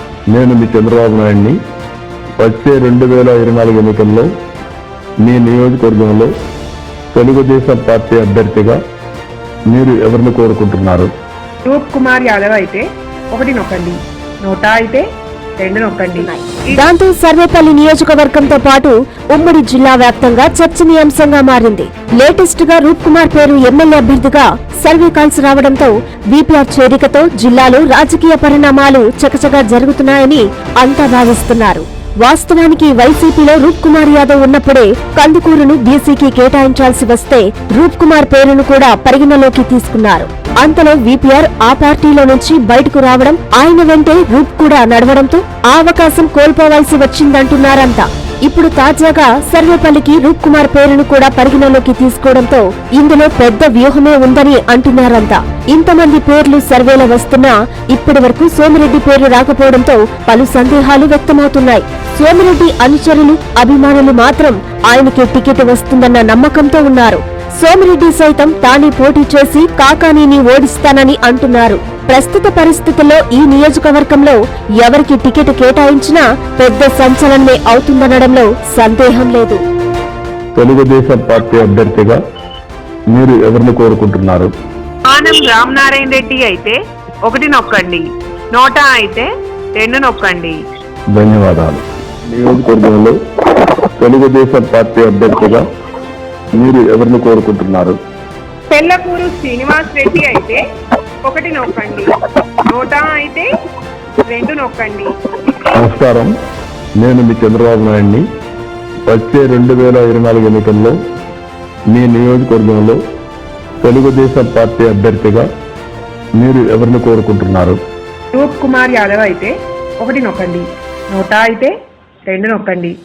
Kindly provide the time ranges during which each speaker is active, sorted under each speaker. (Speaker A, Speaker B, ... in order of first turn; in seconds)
Speaker A: 0.3-1.6, 2.4-4.3, 5.2-6.3, 7.1-8.8, 9.7-11.1, 80.6-82.2, 83.1-84.5, 91.1-93.2, 94.0-95.7, 96.6-98.0, 105.8-106.3, 107.0-108.2, 109.1-111.0, 111.9-113.0, 113.8-115.5, 116.4-117.8
Speaker B: 11.7-15.1, 15.6-16.8, 85.1-90.6, 98.7-100.6, 101.2-102.1, 102.7-103.5, 104.3-105.1, 118.3-121.7, 122.3-123.0
Speaker C: 16.2-79.6